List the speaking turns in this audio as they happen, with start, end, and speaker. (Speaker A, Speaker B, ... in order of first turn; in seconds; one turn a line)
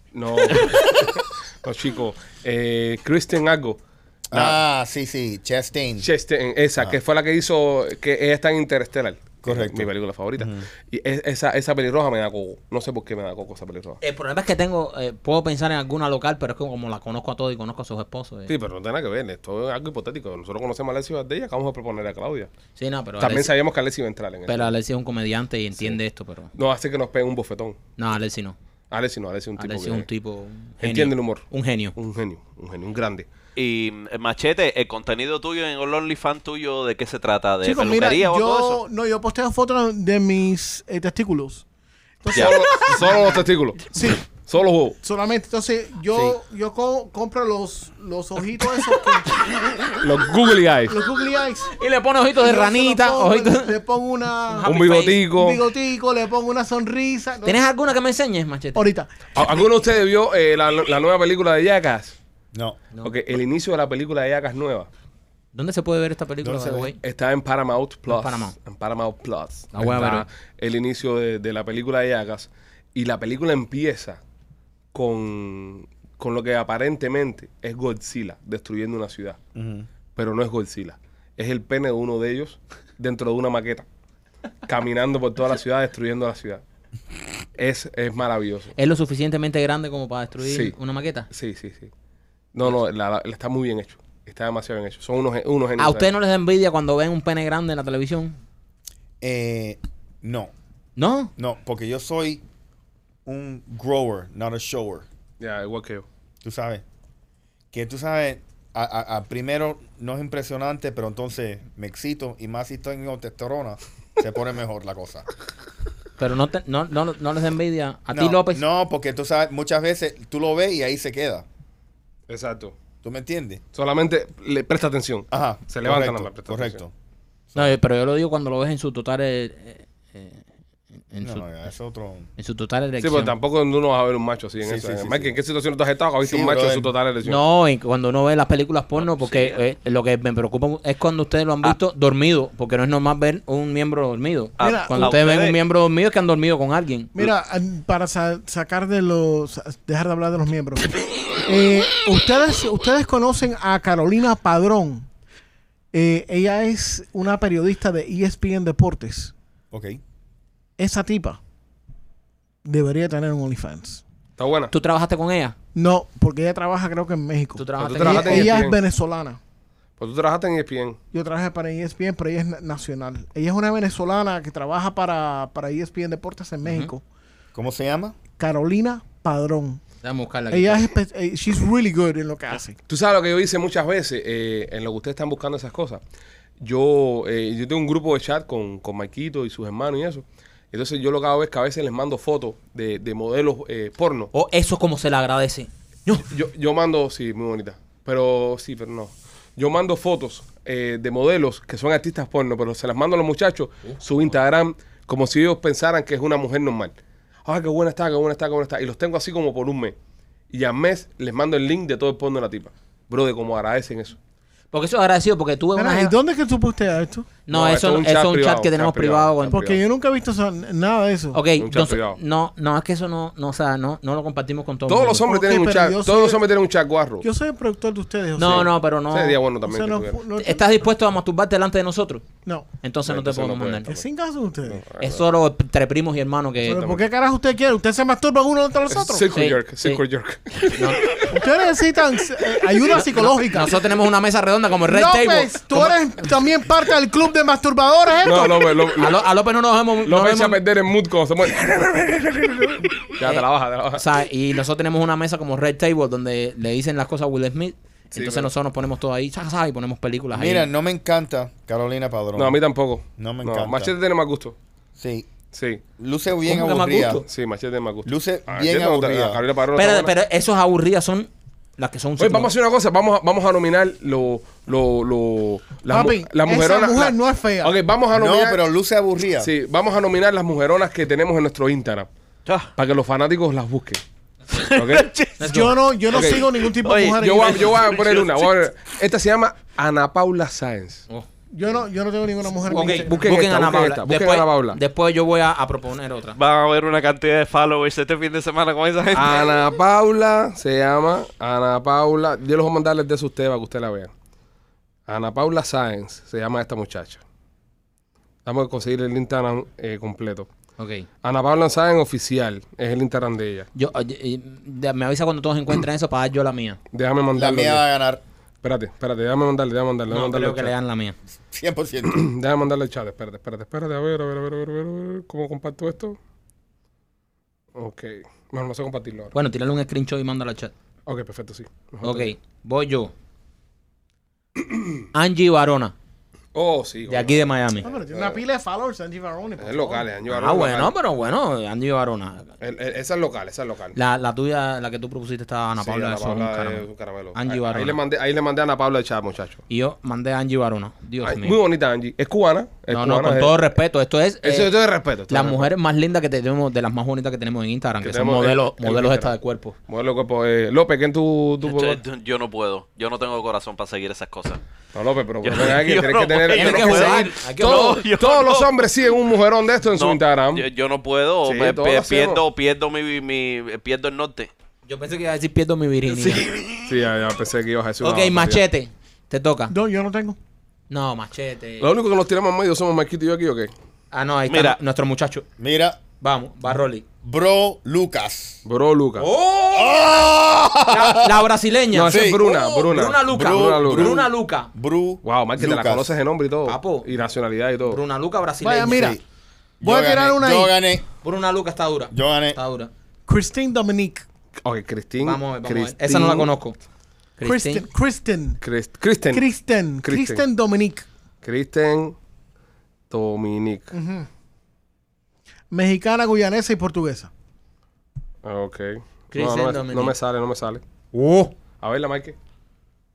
Speaker A: 0.1-3.8
Speaker B: 4.3-6.1
Speaker A: 4.3-4.6
Speaker A: 6.0-14.0
Speaker B: 9.4-10.7
Speaker C: 14.0-18.5
Speaker A: 18.5-22.5
Speaker C: 22.8-23.5
Speaker A: 23.2-24.7
Speaker C: 24.5-26.5
Speaker A: 26.5-27.8
Speaker C: 28.0-28.6
Speaker A: 28.9-30.1
Speaker C: 29.6-31.9
Speaker A: 30.8-33.3
Speaker D: 33.5-38.8
Speaker E: 37.6-41.6
Speaker E: 42.2-43.4
Speaker A: 42.3-45.0
Speaker E: 43.9-44.3
Speaker E: 45.0-49.3
Speaker A: 50.0-51.0
Speaker E: 50.9-51.7
Speaker C: 51.7-53.7
Speaker E: 52.4-54.7
Speaker C: 54.5-55.2
Speaker A: 54.6-55.6
Speaker E: 55.3-57.6
Speaker C: 57.4-58.9
Speaker E: 58.7-59.1
Speaker A: 59.3-62.1
Speaker B: 62.5-62.8
Speaker A: 63.0-64.9
Speaker C: 65.5-67.0
Speaker B: 66.4-66.9
Speaker A: 67.0-74.2
Speaker C: 68.1-68.5
Speaker C: 69.7-70.2
Speaker A: 74.9-79.4
Speaker B: 79.5-79.9
Speaker A: 80.2-83.8
Speaker A: 84.7-86.6
Speaker A: 87.6-88.7
Speaker C: 88.8-91.3
Speaker A: 90.4-90.7
Speaker A: 91.3-91.9
Speaker A: 92.5-96.1
Speaker C: 95.8-98.4
Speaker B: 99.2-100.5
Speaker C: 101.0-101.3
Speaker B: 101.4-102.4
Speaker B: 103.2-105.0
Speaker A: 105.4-106.0
Speaker B: 106.4-106.8
Speaker B: 107.7-115.2
Speaker C: 116.2-118.6
Speaker B: 118.1-121.4
Speaker A: 122.3-122.8
Speaker B: 123.0-123.6
Speaker A: 123.7-126.8
Speaker B: 125.3-126.9
Speaker B: 127.5-127.8
Speaker C: 127.5-130.4
Speaker C: 131.1-131.4
Speaker B: 131.2-132.3
Speaker C: 132.4-133.3
Speaker A: 133.0-137.4
Speaker B: 134.6-135.3
Speaker B: 136.2-136.9
Speaker C: 137.2-147.1
Speaker D: 144.6-145.6
Speaker E: 144.6-145.2
Speaker E: 147.1-155.1
Speaker E: 155.9-159.3
Speaker B: 159.7-160.0
Speaker E: 160.8-161.4
Speaker E: 162.6-164.0
Speaker A: 164.4-164.7
Speaker C: 164.7-165.5
Speaker E: 165.7-169.4
Speaker C: 167.6-168.6
Speaker A: 167.8-168.8
Speaker A: 170.0-171.0
Speaker E: 171.1-177.0
Speaker C: 176.6-176.9
Speaker B: 177.5-178.1
Speaker E: 178.4-179.8
Speaker C: 180.0-180.9
Speaker E: 180.5-182.8
Speaker A: 182.9-186.0
Speaker A: 186.6-194.3
Speaker C: 194.3-196.2
Speaker A: 196.2-206.9
Speaker A: 207.4-209.9
Speaker A: 210.5-214.2
Speaker C: 214.7-216.1
Speaker E: 215.8-217.3
Speaker C: 217.4-219.6
Speaker A: 217.5-219.8
Speaker E: 219.5-221.4
Speaker C: 221.3-225.3
Speaker A: 221.6-222.2
Speaker A: 224.9-227.3
Speaker E: 225.3-226.4
Speaker E: 227.2-228.7
Speaker C: 228.3-229.4
Speaker A: 228.4-230.2
Speaker E: 229.7-230.6
Speaker C: 230.3-232.2
Speaker C: 232.8-234.0
Speaker A: 233.1-234.0
Speaker E: 233.8-234.8
Speaker A: 234.7-235.2
Speaker C: 235.0-236.9
Speaker E: 236.6-239.3
Speaker A: 236.7-237.0
Speaker A: 238.9-241.3
Speaker C: 239.3-240.0
Speaker C: 240.6-241.3
Speaker E: 241.3-243.7
Speaker C: 242.9-246.0
Speaker E: 244.9-248.7
Speaker A: 248.2-249.3
Speaker C: 249.0-250.6
Speaker A: 250.0-254.0
Speaker C: 253.2-260.7
Speaker A: 258.1-258.5
Speaker B: 260.3-262.6
Speaker A: 262.4-264.6
Speaker B: 263.2-263.9
Speaker B: 265.0-265.3
Speaker A: 265.5-265.8
Speaker B: 266.0-267.2
Speaker C: 266.4-267.2
Speaker A: 267.2-270.1
Speaker B: 268.1-269.4
Speaker C: 269.7-272.5
Speaker A: 272.2-278.6
Speaker E: 275.9-277.7
Speaker B: 278.1-279.5
Speaker A: 279.4-282.1
Speaker A: 282.8-284.0
Speaker D: 284.5-285.5
Speaker A: 284.7-285.1
Speaker C: 285.4-285.7
Speaker E: 285.4-287.9
Speaker A: 286.1-286.5
Speaker D: 286.1-288.5
Speaker A: 287.1-291.0
Speaker E: 291.5-293.2
Speaker C: 292.7-296.4
Speaker A: 292.7-294.8
Speaker D: 296.4-299.6
Speaker A: 299.1-304.1
Speaker A: 305.1-307.2
Speaker A: 308.4-310.5
Speaker C: 310.8-311.1
Speaker A: 311.2-313.7
Speaker C: 313.7-316.8
Speaker A: 316.9-317.8
Speaker B: 317.3-318.2
Speaker A: 318.6-320.7
Speaker C: 320.1-321.1
Speaker B: 321.5-322.3
Speaker A: 322.1-326.2
Speaker A: 327.8-329.3
Speaker C: 329.3-330.7
Speaker A: 331.1-332.3
Speaker C: 332.0-333.1
Speaker A: 334.6-335.0
Speaker C: 335.1-335.9
Speaker A: 336.5-337.4
Speaker C: 337.1-337.9
Speaker E: 337.8-340.1
Speaker A: 338.1-338.4
Speaker A: 339.6-340.9
Speaker C: 340.3-342.5
Speaker A: 342.6-344.0
Speaker C: 343.9-348.0
Speaker A: 345.8-349.6
Speaker C: 349.7-351.6
Speaker A: 351.2-353.7
Speaker C: 352.9-354.7
Speaker A: 354.4-355.7
Speaker C: 355.3-359.7
Speaker A: 358.0-359.3
Speaker A: 359.9-362.0
Speaker D: 361.6-364.6
Speaker A: 364.9-370.6
Speaker D: 365.4-368.7
Speaker C: 366.5-368.0
Speaker D: 369.9-374.5
Speaker A: 371.4-372.4
Speaker C: 374.9-376.5
Speaker D: 376.1-376.9
Speaker A: 376.8-378.6
Speaker C: 378.0-379.7
Speaker E: 379.7-380.4
Speaker C: 380.9-381.9
Speaker A: 381.8-383.7
Speaker C: 384.1-385.4
Speaker D: 384.5-384.8
Speaker B: 385.6-386.0
Speaker C: 386.2-387.0
Speaker B: 387.2-388.6
Speaker A: 388.6-389.3
Speaker C: 389.2-390.0
Speaker B: 389.7-391.4
Speaker C: 390.9-392.2
Speaker A: 391.9-394.2
Speaker B: 392.1-396.1
Speaker C: 392.9-394.7
Speaker A: 395.2-398.0
Speaker C: 396.7-397.1
Speaker C: 397.9-399.2
Speaker E: 398.6-399.2
Speaker B: 398.9-399.2
Speaker B: 399.8-401.0
Speaker E: 399.8-400.7
Speaker C: 401.2-402.9
Speaker B: 402.1-402.6
Speaker E: 403.3-404.2
Speaker A: 404.6-406.5
Speaker C: 405.2-406.8
Speaker C: 407.4-407.8
Speaker E: 407.4-408.6
Speaker A: 408.6-409.4
Speaker E: 409.3-411.1
Speaker A: 410.0-410.4
Speaker A: 411.4-412.1
Speaker A: 413.1-413.9
Speaker E: 413.9-414.3
Speaker E: 415.7-417.3
Speaker A: 418.4-420.8
Speaker C: 419.3-420.1
Speaker C: 421.1-421.5
Speaker A: 421.8-422.4